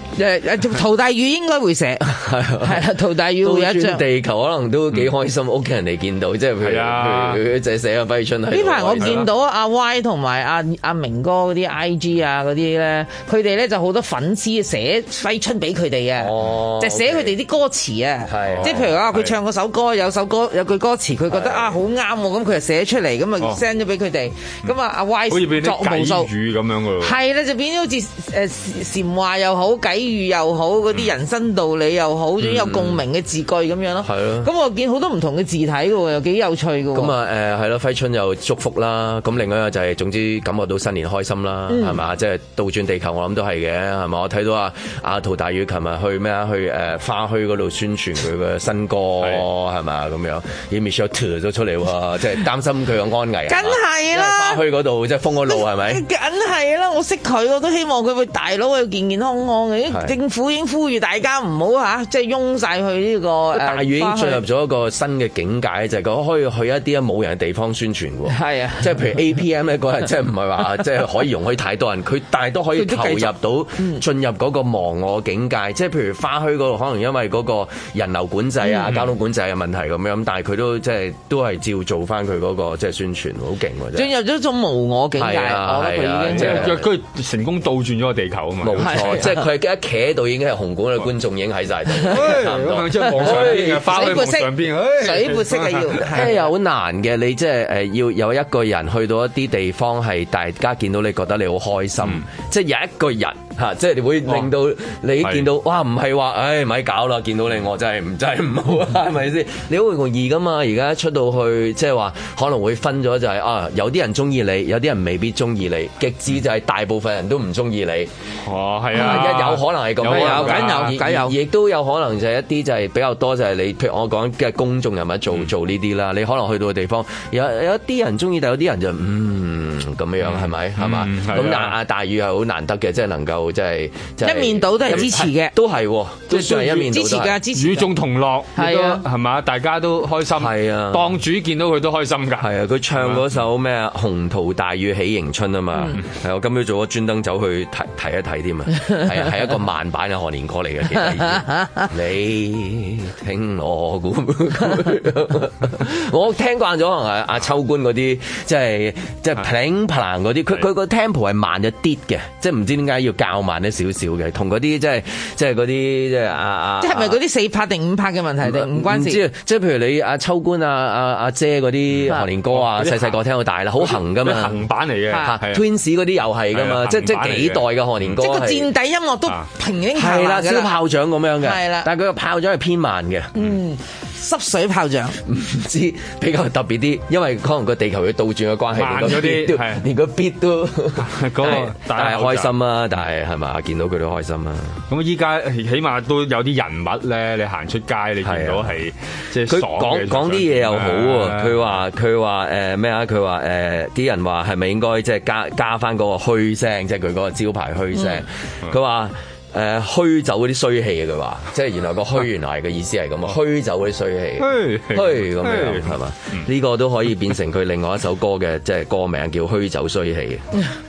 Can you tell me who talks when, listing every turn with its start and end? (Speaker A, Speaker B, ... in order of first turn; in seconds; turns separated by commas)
Speaker A: 0.1-4.0, Speaker B: 2.1-2.9, Speaker B: 3.4-9.2, Speaker C: 6.6-7.4, Speaker A: 8.5-26.3, Speaker C: 8.9-9.3, Speaker B: 16.2-17.3, Speaker B: 18.3-18.9, Speaker C: 18.5-19.3, Speaker B: 21.3-21.8, Speaker C: 25.3-27.1, Speaker A: 27.0-37.1, Speaker B: 32.4-33.0, Speaker B: 34.0-34.5, Speaker B: 36.9-56.0, Speaker A: 41.7-42.0, Speaker A: 53.5-54.6, Speaker A: 55.5-64.4, Speaker B: 59.9-60.1, Speaker B: 63.5-84.1, Speaker A: 68.3-69.0, Speaker A: 72.7-74.0, Speaker A: 83.9-86.7, Speaker B: 85.2-86.9, Speaker C: 86.3-89.3, Speaker B: 88.6-94.0, Speaker A: 88.8-89.4, Speaker C: 92.1-96.1, Speaker A: 93.0-96.3, Speaker B: 96.0-118.1, Speaker C: 118.4-121.0, Speaker B: 118.9-137.4, Speaker A: 120.0-121.3, Speaker C: 130.2-131.7, Speaker A: 134.2-135.5, Speaker A: 136.3-137.9, Speaker C: 136.3-136.7, Speaker C: 137.5-143.3, Speaker A: 138.5-139.0, Speaker B: 140.3-141.2, Speaker B: 142.4-167.2, Speaker A: 151.3-151.9, Speaker A: 166.8-169.2, Speaker B: 168.4-174.6, Speaker C: 172.0-173.2, Speaker C: 173.9-175.6, Speaker B: 175.2-178.7, Speaker C: 176.5-178.2, Speaker A: 178.2-180.7, Speaker B: 179.9-183.3, Speaker A: 181.4-181.9, Speaker A: 183.3-185.2, Speaker B: 185.2-194.8, Speaker C: 188.8-189.8, Speaker C: 191.0-192.5, Speaker C: 194.9-201.7, Speaker B: 198.2-198.7, Speaker B: 199.5-220.4, Speaker C: 214.4-216.4